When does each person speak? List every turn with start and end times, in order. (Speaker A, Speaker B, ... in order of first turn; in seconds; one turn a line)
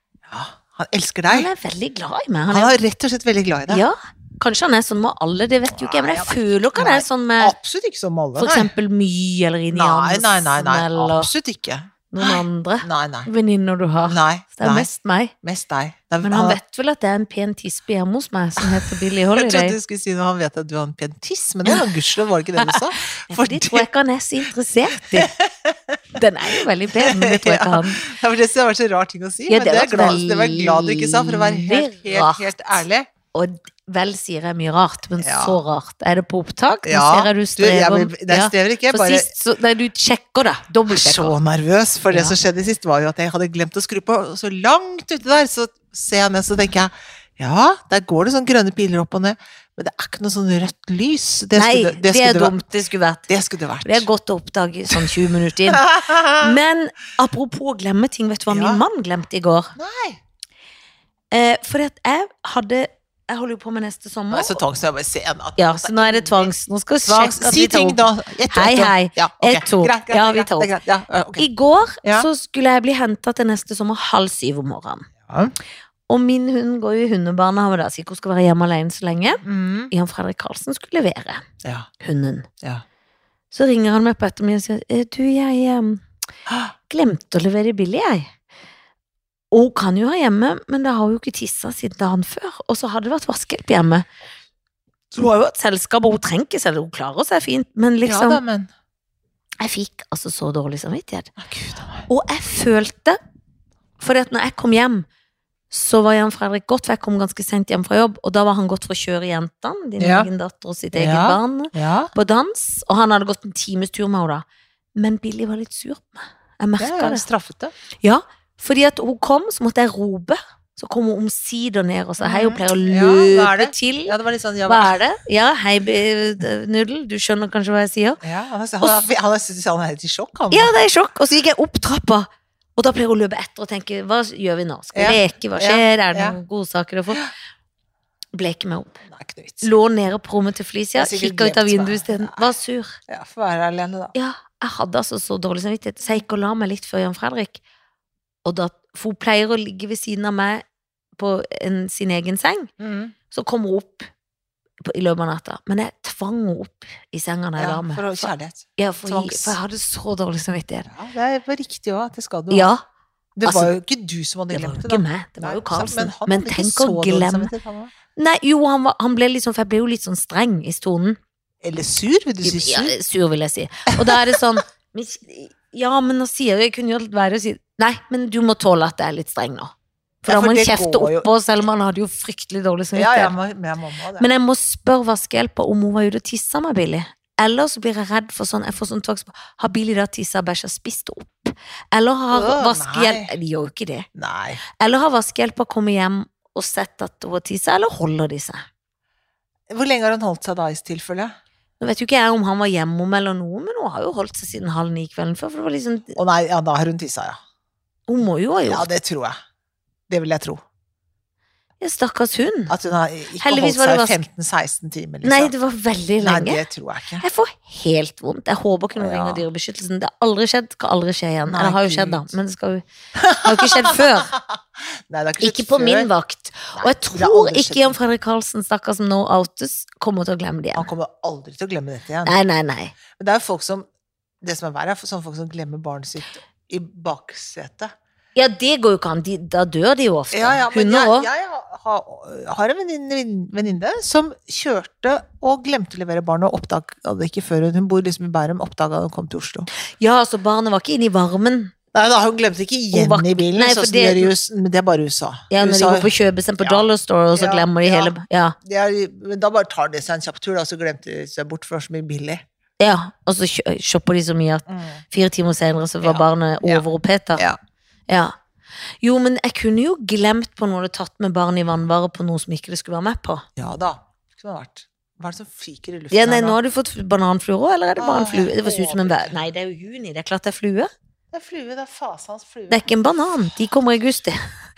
Speaker A: 0.3-1.5
Speaker B: 1.3-2.8
Speaker A: 2.5-3.8
Speaker B: 3.7-7.5
Speaker A: 5.7-8.7
Speaker B: 8.3-11.3
Speaker A: 9.7-13.3
Speaker B: 12.1-15.3
Speaker A: 14.0-14.9
Speaker A: 15.4-16.6
Speaker B: 16.2-19.8
Speaker A: 18.6-23.9
Speaker B: 22.6-25.3
Speaker A: 25.1-26.2
Speaker B: 26.1-28.1
Speaker A: 27.0-33.1
Speaker B: 29.5-32.7
Speaker B: 33.3-41.3
Speaker A: 35.2-35.6
Speaker A: 36.8-39.3
Speaker A: 40.9-52.5
Speaker B: 42.1-42.4
Speaker B: 51.5-53.2
Speaker A: 53.3-54.1
Speaker B: 53.8-59.7
Speaker A: 55.7-56.6
Speaker A: 58.5-58.8
Speaker A: 59.8-60.2
Speaker B: 61.3-64.6
Speaker A: 64.3-66.5
Speaker B: 65.6-70.7
Speaker A: 67.0-71.5
Speaker B: 71.4-75.1
Speaker A: 72.0-72.3
Speaker A: 75.3-75.5
Speaker B: 76.1-81.4
Speaker A: 79.4-79.9
Speaker B: 82.0-82.5
Speaker B: 83.5-86.0
Speaker B: 86.9-88.3
Speaker B: 89.5-94.0
Speaker B: 95.1-98.4
Speaker A: 98.0-98.7
Speaker B: 99.6-101.3
Speaker A: 101.4-102.1
Speaker B: 102.1-103.2
Speaker B: 104.0-105.0
Speaker B: 105.7-114.4
Speaker A: 110.0-110.3
Speaker A: 110.9-112.1
Speaker B: 115.0-117.2
Speaker A: 116.8-117.7
Speaker B: 118.0-124.1
Speaker A: 122.2-125.0
Speaker B: 124.7-128.2
Speaker A: 128.2-130.7
Speaker B: 130.5-137.2
Speaker A: 134.9-136.4
Speaker B: 138.3-139.0
Speaker A: 139.1-139.7
Speaker B: 139.6-143.0
Speaker A: 140.9-142.5
Speaker A: 143.1-144.1
Speaker B: 144.1-147.6
Speaker B: 148.4-150.6
Speaker B: 151.2-152.7
Speaker A: 152.8-153.1
Speaker B: 153.3-154.1
Speaker B: 154.8-160.9
Speaker A: 157.6-159.6
Speaker A: 160.9-162.7
Speaker B: 162.5-162.8
Speaker A: 163.4-167.9
Speaker B: 163.4-163.7
Speaker B: 164.5-167.5
Speaker B: 168.2-171.2
Speaker A: 171.6-172.9
Speaker B: 172.4-179.7
Speaker A: 173.9-174.4
Speaker A: 180.2-181.3
Speaker B: 180.2-183.3
Speaker A: 182.9-184.3
Speaker B: 184.2-194.1
Speaker A: 192.3-193.3
Speaker A: 194.1-194.6
Speaker B: 194.8-198.6
Speaker A: 199.7-201.3
Speaker B: 201.8-206.2
Speaker A: 206.2-207.4
Speaker B: 208.1-208.9
Speaker A: 208.7-209.4
Speaker A: 210.1-210.6
Speaker B: 211.8-212.7
Speaker A: 212.7-215.5
Speaker B: 213.4-214.2
Speaker B: 215.2-216.6
Speaker A: 216.2-217.2
Speaker B: 217.2-222.8
Speaker A: 218.9-219.4
Speaker A: 221.5-222.3
Speaker A: 223.2-226.1
Speaker B: 223.4-224.3
Speaker B: 225.4-230.9
Speaker A: 226.7-228.0
Speaker A: 230.7-232.3
Speaker B: 232.2-232.9
Speaker A: 233.1-233.8
Speaker A: 234.4-237.9
Speaker B: 238.3-241.3
Speaker A: 240.3-249.7
Speaker B: 250.0-251.7
Speaker A: 251.9-262.4
Speaker B: 252.9-254.3
Speaker B: 255.5-258.6
Speaker B: 262.8-267.4
Speaker A: 264.7-265.0
Speaker A: 266.0-266.8
Speaker B: 268.1-268.3
Speaker B: 269.0-273.4
Speaker A: 273.6-276.6
Speaker B: 276.1-280.9
Speaker A: 278.0-279.3
Speaker A: 281.3-282.9
Speaker B: 282.7-284.4